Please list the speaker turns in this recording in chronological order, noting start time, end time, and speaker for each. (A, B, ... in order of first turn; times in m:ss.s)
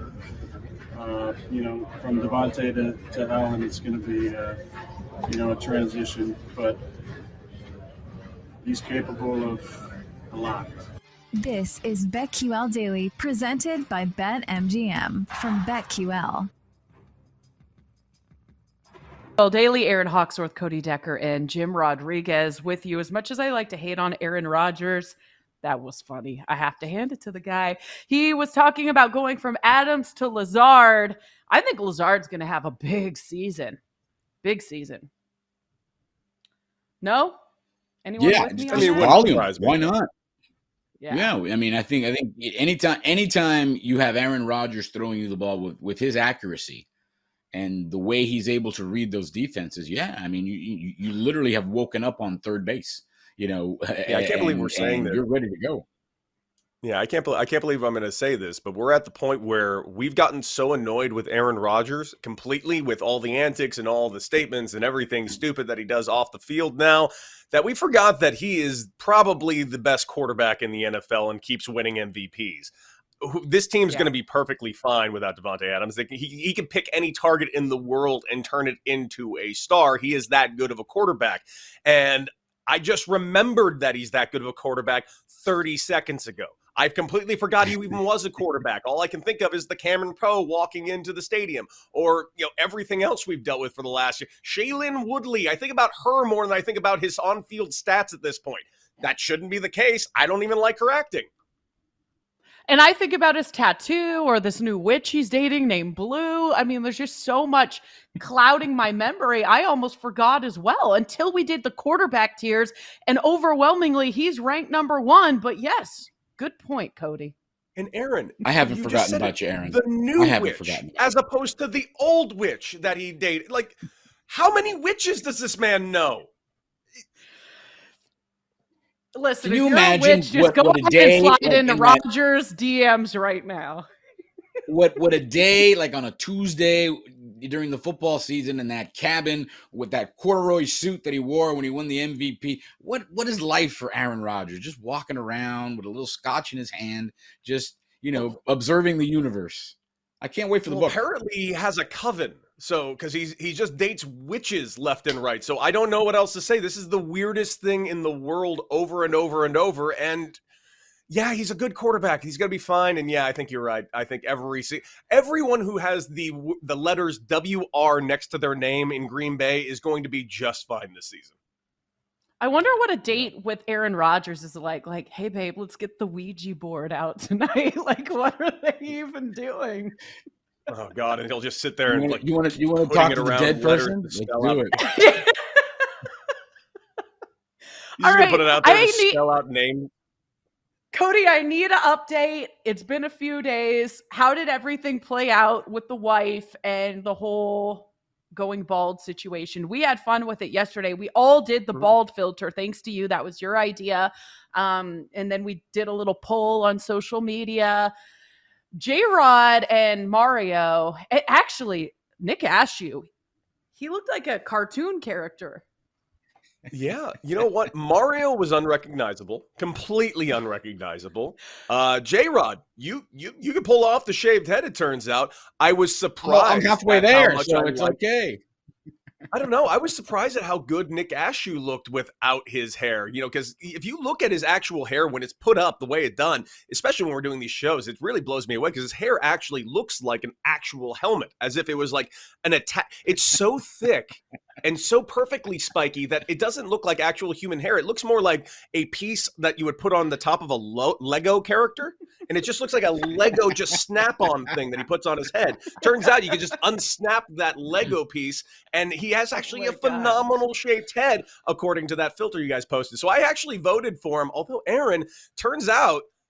0:00.9-0:04.6 A
0:05.3-0:06.8 A
0:08.6-0:09.8 A
0:10.3-0:10.8 A
0:11.4-0:16.5 B
0:19.4-0:33.8 C
0:34.4-0:35.1 C
0:37.0-0:37.4 C
0:38.0-0:39.2 C
0:38.2-0:40.1 D
0:38.7-0:39.9 E
0:41.0-0:41.3 C
0:41.1-0:46.8 D
0:47.5-0:55.8 D
0:54.0-0:55.2 E
0:56.8-1:41.3 E
1:42.7-1:57.3 C
1:57.8-2:03.8 E
1:58.4-2:01.0 D
2:04.3-2:06.3 E
2:09.1-2:13.8 C
2:09.4-2:12.0 D
2:14.7-2:31.0 D
2:30.6-2:40.4 E
2:41.1-2:51.3 E
2:52.4-3:00.0 C
3:00.7-3:04.8 E
3:01.9-3:04.8 D
3:04.8-3:05.6 C
3:08.0-3:09.2 C
3:08.0-3:09.9 E
3:10.9-3:27.9 C
3:28.8-3:33.1 C
3:33.7-3:35.6 C
3:36.7-3:48.0 E
3:46.2-3:48.4 D
3:49.3-4:26.0 E
4:19.4-4:20.4 C